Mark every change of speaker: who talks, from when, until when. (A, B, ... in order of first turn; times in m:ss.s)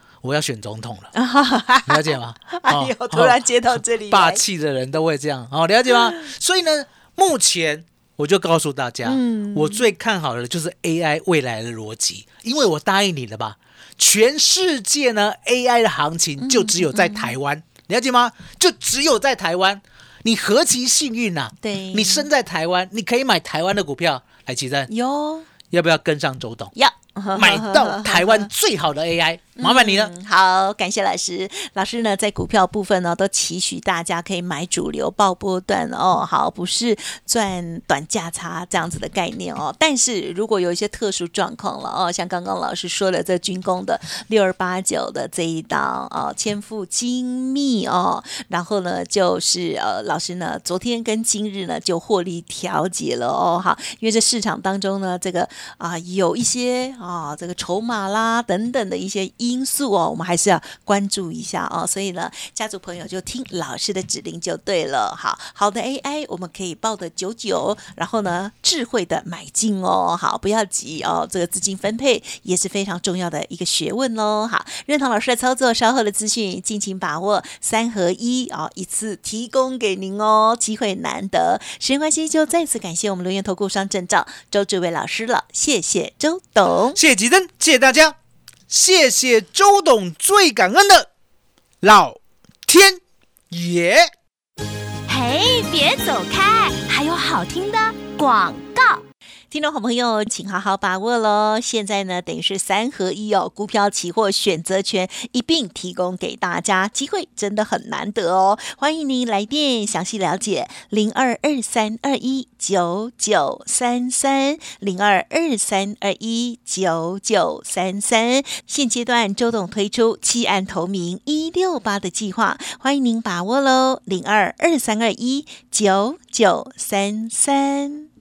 0:00.2-0:01.1 A
0:01.1-0:04.4 B
0:01.9-0:24.9 A
0:09.0-0:09.9 B
0:16.4-0:17.4 B
0:21.6-0:22.3 B
0:24.9-0:25.5 B
0:25.7-0:26.7 A
0:26.7-0:28.5 B
0:27.3-0:30.1 A
0:29.6-1:27.0 B
1:26.9-1:28.1 A
1:28.7-1:31.1 A
1:31.8-1:33.0 A
1:33.5-1:34.1 A
1:35.1-1:39.0 C
1:39.5-2:08.1 B